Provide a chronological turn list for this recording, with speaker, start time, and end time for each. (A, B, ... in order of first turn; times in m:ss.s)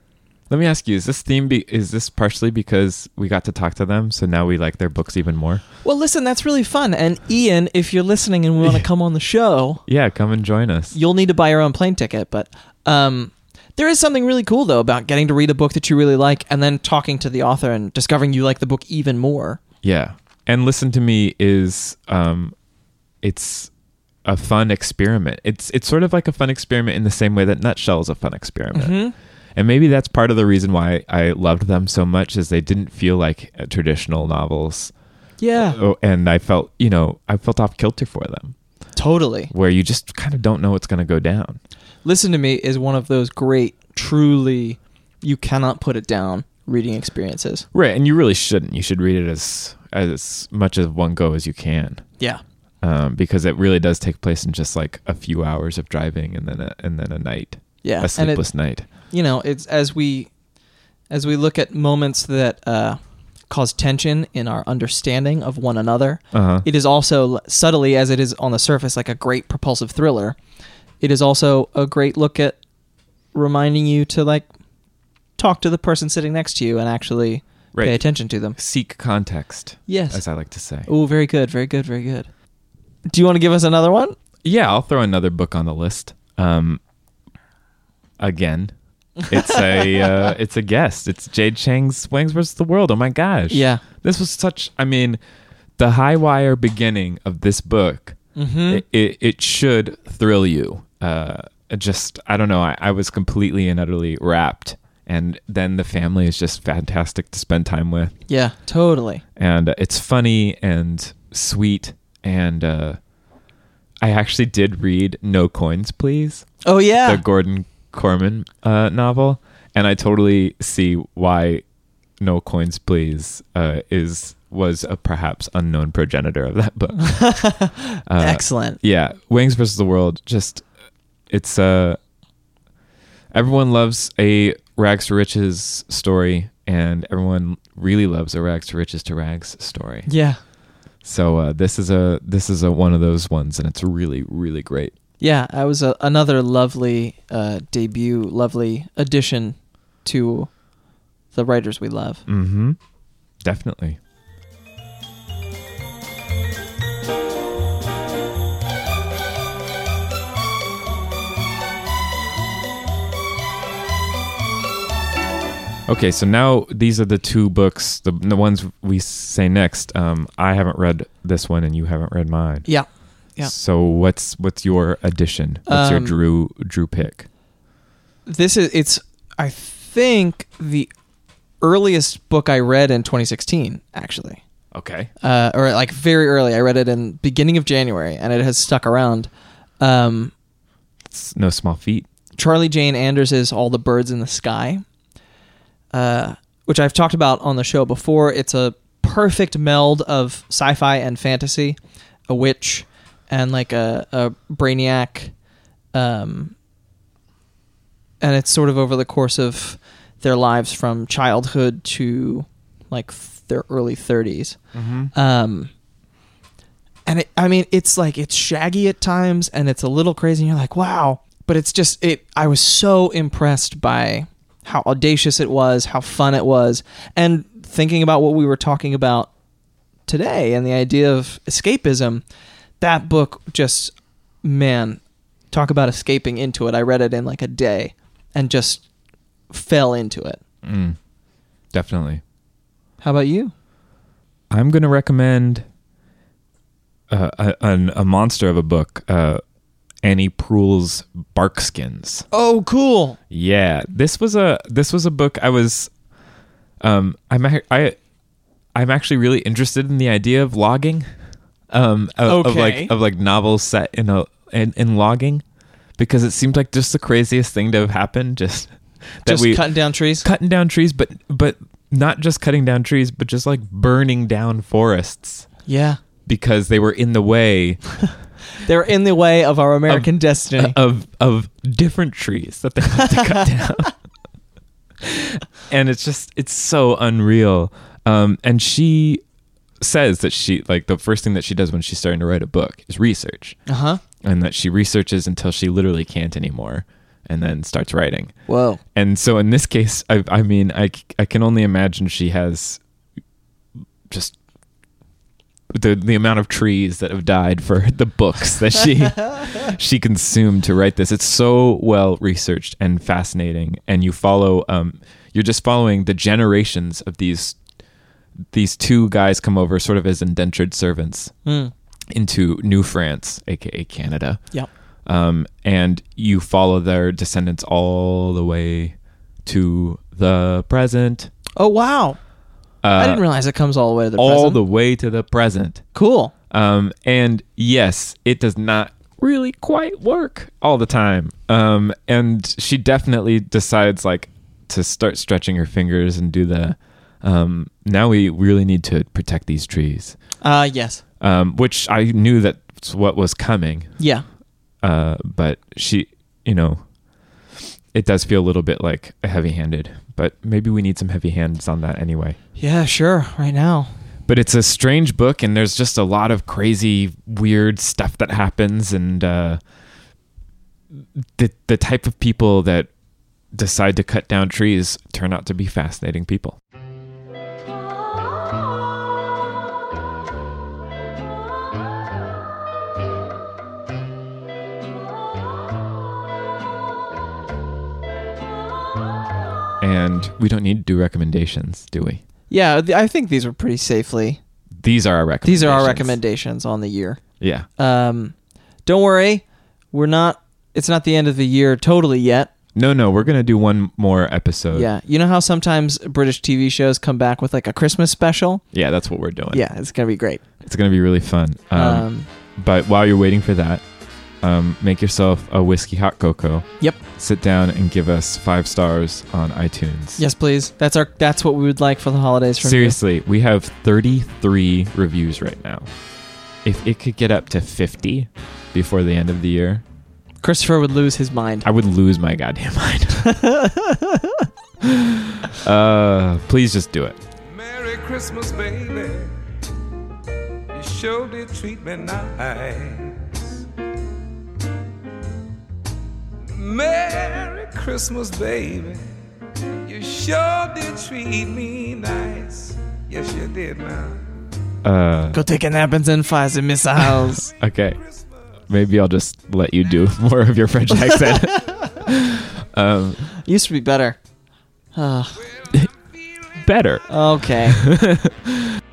0:00.5-0:05.6 A
0:05.8-0:09.8 B
0:09.9-0:11.0 A
0:10.9-0:19.6 B
0:19.8-0:22.5 A
0:23.2-0:23.7 A
0:24.2-0:29.0 A
0:28.7-0:29.1 B
0:29.5-0:34.9 A
0:35.4-0:35.8 B
0:35.6-0:38.6 A
0:39.0-0:39.5 B
0:39.5-0:41.6 A
0:42.0-0:47.6 B
0:47.7-0:52.0 A
0:52.8-0:58.8 A
0:57.8-1:00.3 B
1:01.1-1:10.4 B
1:06.3-1:06.6 A
1:11.0-1:12.6 B
1:13.3-1:14.5 B
1:15.4-1:18.6 B
1:17.7-1:18.0 A
1:18.6-1:20.9 A
1:19.9-1:20.2 B
1:20.9-1:22.3 B
1:23.1-1:24.2 B
1:24.4-1:26.8 A
1:28.2-1:28.7 A
1:29.3-1:35.2 A
1:29.3-1:30.0 B
1:33.5-1:33.8 B
1:35.8-1:48.1 A
1:38.3-1:38.8 B
1:48.3-1:49.2 B
1:49.4-1:53.0 A
1:54.0-1:56.5 A
1:56.6-1:57.2 B
1:57.0-2:01.6 A
2:02.2-2:07.5 A
2:07.0-2:08.8 B
2:08.1-2:10.6 A
2:11.3-2:12.0 A
2:13.3-2:20.1 A
2:20.1-2:20.4 B
2:21.0-2:24.9 A
2:25.2-2:30.5 B
2:31.3-2:32.2 B
2:32.3-2:32.8 A
2:33.4-2:34.0 A
2:45.9-2:52.7 A
2:52.6-2:53.5 B
2:53.4-2:57.3 A
2:55.7-2:56.1 B
2:58.2-3:00.9 B
3:01.6-3:04.4 B
3:04.7-3:05.1 A
3:05.2-3:10.3 B
3:11.1-3:12.1 A
3:12.4-3:14.8 B
3:15.9-3:21.8 B
3:22.3-3:25.3 B
3:25.9-3:26.5 B
3:28.2-3:34.6 B
3:34.7-3:35.1 A
3:35.1-3:35.7 B
3:37.1-3:49.3 B
3:50.1-3:52.2 B
3:52.8-3:55.0 B
3:55.5-3:58.8 B
3:59.5-4:00.4 B
4:00.6-4:01.0 A
4:01.7-4:02.2 A
4:03.0-4:03.5 B
4:04.5-4:05.6 A
4:07.1-4:09.4 A
4:10.0-4:12.2 A
4:12.3-4:13.2 B
4:13.3-4:15.9 A
4:16.8-4:18.0 A
4:18.7-4:21.1 A
4:21.7-4:25.4 A
4:22.2-4:22.9 B
4:26.0-4:29.7 A
4:29.2-4:30.2 B
4:30.2-4:35.5 A
4:35.7-4:36.0 B
4:36.2-4:38.1 A
4:38.6-4:40.8 B
4:39.9-4:44.0 A
4:45.0-4:49.2 A
4:49.8-4:53.6 A
4:53.7-4:54.0 B
4:54.2-4:58.3 A
4:58.5-4:58.8 B
4:58.9-5:02.8 A
5:04.1-5:04.4 A
5:05.7-5:17.6 A
5:18.5-5:21.3 A
5:21.4-5:21.7 B
5:22.1-5:24.4 A
5:25.0-5:31.3 A
5:31.6-5:32.2 B
5:32.8-5:33.2 A
5:33.0-5:34.6 B
5:34.2-5:35.8 A
5:35.9-5:36.3 B
5:36.5-5:50.2 A
5:50.4-5:51.0 B
5:51.2-5:54.0 A
5:54.0-5:54.2 B
5:54.8-5:56.8 A
5:57.6-6:02.4 A
6:02.6-6:03.9 B
6:04.2-6:09.6 A
6:11.2-6:12.9 A
6:13.5-6:16.6 A
6:29.8-6:32.2 A
6:32.5-6:34.4 B
6:34.8-6:36.2 A
6:35.4-6:37.2 B
6:37.4-6:37.7 A
6:37.8-6:38.3 B
6:38.8-6:42.5 B
6:42.7-6:44.9 A
6:44.7-6:48.6 B
6:48.7-6:49.6 A
6:49.5-6:50.4 B
6:50.6-6:53.8 A
6:51.7-6:52.3 B
6:54.4-7:00.2 A
7:00.2-7:03.0 B
7:02.6-7:05.9 A
7:06.6-7:09.8 A
7:10.4-7:11.7 B
7:11.6-7:13.3 A
7:13.2-7:14.5 B
7:14.8-7:17.2 A
7:17.4-7:19.4 C
7:20.7-7:23.6 C
7:26.4-7:29.1 C
7:29.8-7:34.4 C
7:34.8-7:35.4 A
7:35.3-7:37.5 B
7:37.6-7:38.0 A
7:38.7-7:43.3 A
7:41.1-7:41.7 B
7:43.4-7:44.2 B
7:44.9-7:45.4 B
7:45.4-7:46.6 C
7:46.6-7:47.0 A
7:47.1-7:47.8 B
7:47.7-7:48.8 A